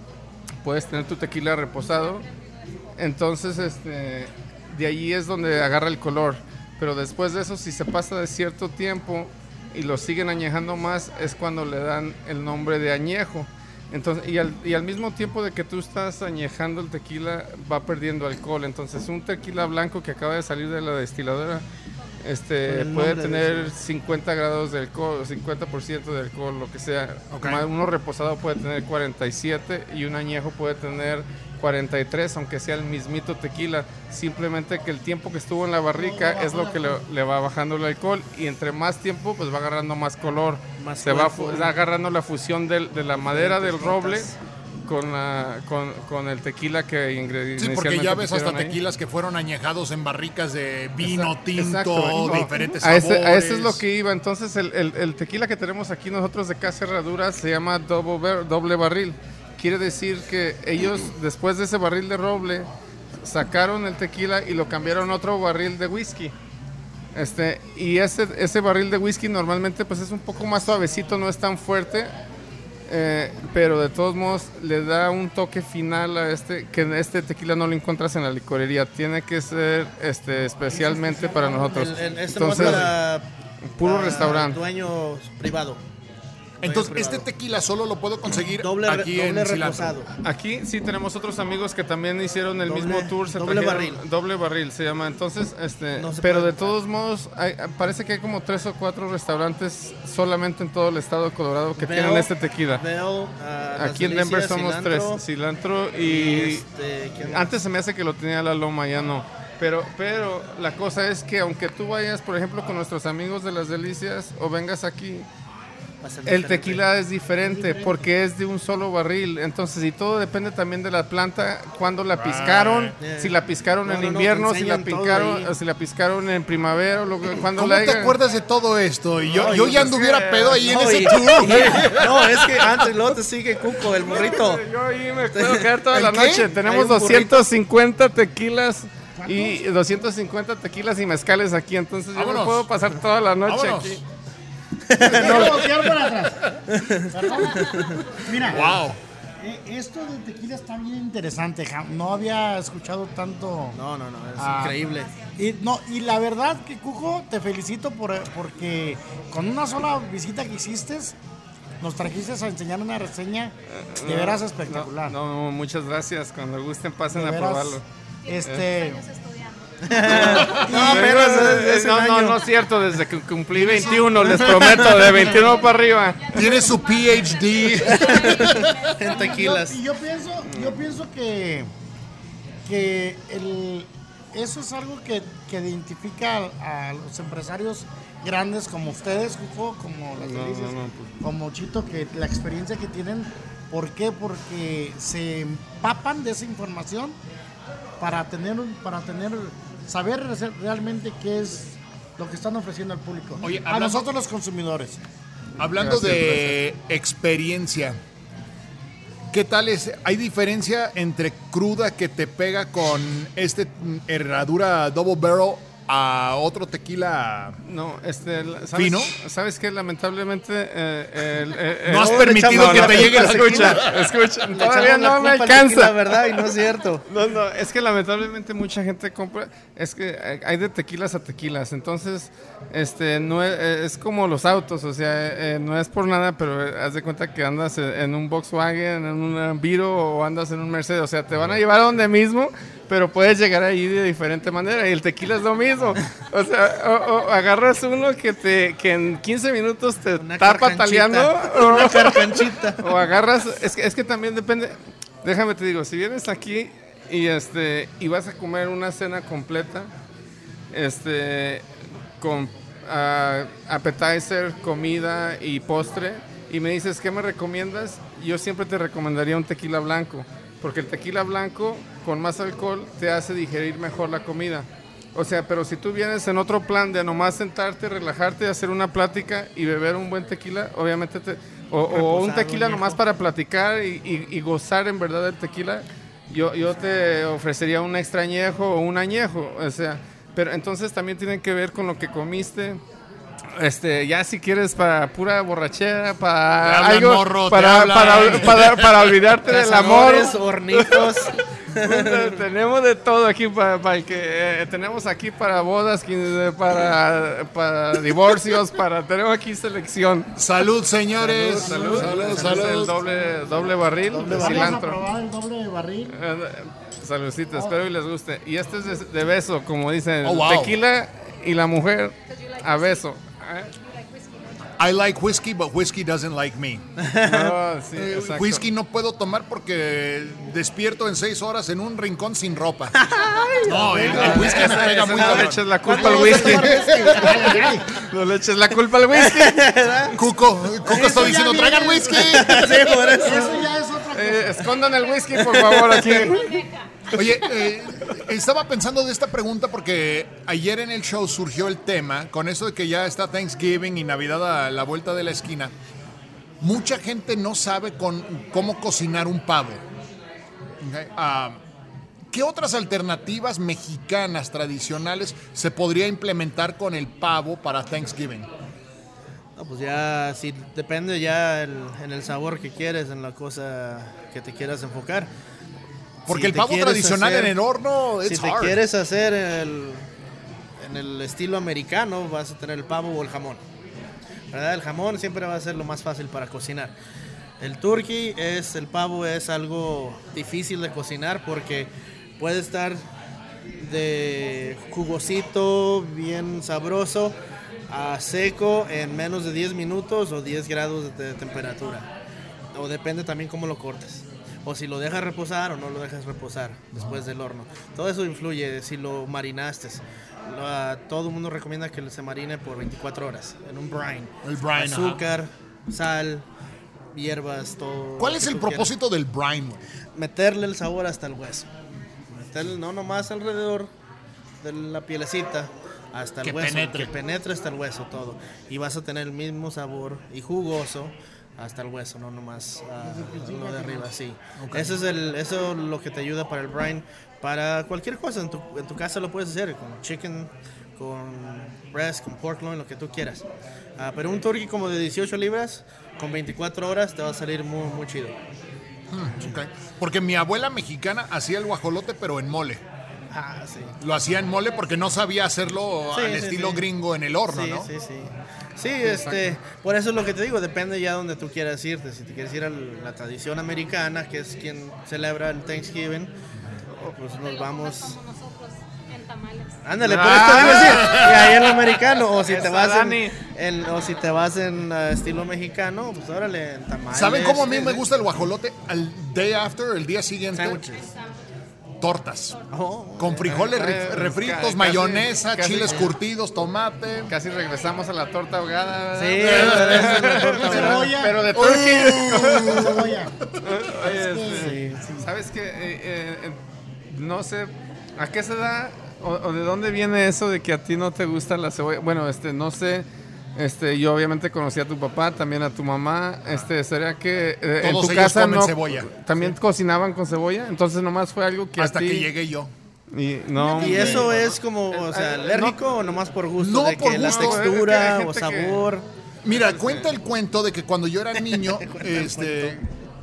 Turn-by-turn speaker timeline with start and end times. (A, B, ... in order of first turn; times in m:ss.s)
0:00.6-0:02.2 A
0:03.0-0:21.6 A
0:22.2-0:44.3 A
0:22.6-0:23.7 B
0:27.3-0:27.7 C
0:36.0-0:37.0 D
0:40.8-0:41.8 B
0:43.2-0:44.4 B
0:44.9-0:48.8 A
0:47.6-0:53.8 C
0:51.0-1:02.7 A
1:03.2-1:06.3 A
1:07.2-1:12.1 A
1:12.9-1:23.0 A
1:21.0-1:21.3 D
1:21.3-1:23.2 B
1:22.5-1:22.9 C
1:23.8-1:24.6 A
1:23.8-1:25.8 B
1:26.6-1:27.2 B
1:26.6-1:30.0 C
1:28.6-1:30.1 B
1:30.2-1:42.8 A
1:32.6-1:34.0 B
1:36.0-1:36.6 B
1:41.8-1:45.2 B
1:43.8-1:46.6 A
1:46.0-1:47.5 B
1:47.2-1:55.3 A
1:56.0-1:56.8 B
1:56.3-2:08.2 A
1:57.4-1:58.1 D
2:02.2-2:03.0 C
2:03.0-2:05.5 B
2:07.6-2:12.6 C
2:09.3-2:09.9 B
2:09.5-2:10.7 A
2:10.6-2:14.6 B
2:13.9-2:24.0 A
2:15.3-2:15.7 B
2:15.9-2:16.5 C
2:16.6-2:17.4 B
2:19.2-2:19.6 D
2:22.1-2:22.7 C
2:23.5-2:24.0 C
2:24.9-2:25.6 B
2:25.0-2:26.4 D
2:25.1-2:25.7 C
2:26.7-2:28.0 B
2:27.1-2:28.8 D
2:28.4-2:29.0 C
2:29.4-2:33.8 D
2:33.7-2:35.1 B
2:34.4-2:34.8 D
2:34.9-2:35.3 E
2:35.4-2:41.2 D
2:41.8-2:45.2 D
2:43.7-2:47.8 A
2:47.1-2:49.0 D
2:48.2-2:50.7 E
2:49.9-2:52.4 B
2:50.1-2:56.6 A
2:50.1-2:50.6 C
2:50.5-2:51.1 D
2:53.6-2:54.6 C
2:53.7-2:55.6 B
2:55.2-2:59.6 E
2:56.3-2:58.8 C
2:57.8-2:59.8 B
2:59.1-3:01.7 D
3:00.4-3:00.8 A
3:02.6-3:17.2 D
3:10.2-3:11.1 A
3:18.0-3:25.0 D
3:23.4-3:24.1 C
3:25.6-3:28.0 C
3:25.6-3:26.6 A
3:29.3-3:37.6 C
3:37.6-3:46.4 A
3:38.7-3:39.1 C
3:41.8-3:44.1 C
3:42.0-3:43.9 B
3:44.5-3:47.0 B
3:47.1-4:19.9 A
4:10.2-4:12.8 B
4:20.7-4:21.6 A
4:22.2-4:52.8 A
4:41.9-4:43.0 B
4:53.6-5:01.2 A
4:56.6-4:59.1 C
4:59.5-5:02.4 B
5:01.8-5:10.4 A
5:10.4-5:13.0 C
5:11.2-5:12.8 B
5:11.4-5:13.3 D
5:11.6-5:15.0 A
5:14.1-5:16.2 D
5:14.2-5:14.7 B
5:16.1-5:23.7 A
5:20.2-5:20.8 C
5:22.3-5:24.7 E
5:24.8-5:26.8 C
5:27.0-5:27.6 B
5:27.2-5:28.6 A
5:28.0-5:33.0 C
5:32.9-5:37.3 B
5:33.1-5:33.6 E
5:33.6-5:37.3 C
5:33.8-5:34.5 D
5:34.0-5:39.7 A
5:36.0-5:37.9 D
5:39.1-5:40.2 B
5:40.1-5:43.3 C
5:40.9-5:44.8 D
5:42.1-5:43.6 B
5:44.1-5:46.4 A
5:45.0-5:47.2 E
5:45.5-5:46.3 B
5:47.1-5:55.7 C
5:56.6-5:59.8 C
6:00.8-6:01.6 C
6:02.3-6:08.5 C
6:09.6-6:15.3 B
6:16.3-6:17.5 B
6:16.3-6:18.8 C
6:18.2-6:20.1 B
6:20.8-6:23.6 B
6:24.5-6:26.9 B
6:27.6-6:33.0 B
6:33.8-6:37.4 B
6:37.9-6:42.1 B
6:42.7-6:56.5 B
6:54.4-6:55.2 C
6:57.1-6:58.9 B
6:58.2-6:59.9 C
7:00.1-7:01.7 B
7:02.3-7:03.9 B
7:04.6-7:23.5 B
7:06.4-7:07.1 C
7:13.0-7:14.1 D
7:14.6-7:15.0 C
7:24.0-7:28.4 B
7:29.1-7:32.8 C
7:33.3-7:33.9 B
7:34.0-7:37.9 C
7:36.1-7:36.8 B
7:37.5-7:46.3 B
7:39.0-7:39.6 A
7:47.2-7:48.2 B
7:47.4-7:49.9 E
7:49.8-7:58.0 B
7:50.0-7:51.3 A
7:50.1-7:51.9 C
7:52.3-7:53.4 A
7:57.1-8:00.8 C
8:00.5-8:01.1 B
8:00.9-8:01.3 E
8:02.0-8:02.6 C
8:02.7-8:03.6 B
8:03.2-8:07.3 C
8:03.4-8:06.0 A
8:05.8-8:06.1 B
8:07.3-8:13.1 A
8:09.2-8:11.1 B
8:09.4-8:10.6 C
8:10.6-8:11.6 D
8:11.5-8:13.1 C
8:12.3-8:13.3 D
8:13.6-8:16.6 A
8:13.9-8:15.3 D
8:14.5-8:15.0 B
8:17.1-8:32.3 A
8:27.8-8:29.1 C
8:31.8-8:32.7 C
8:33.1-8:36.1 A
8:33.6-8:34.3 D
8:33.7-8:39.0 B
8:36.6-8:37.8 C
8:37.1-8:38.8 A
8:39.4-8:42.8 C
8:39.5-8:40.1 A
8:41.4-8:42.8 B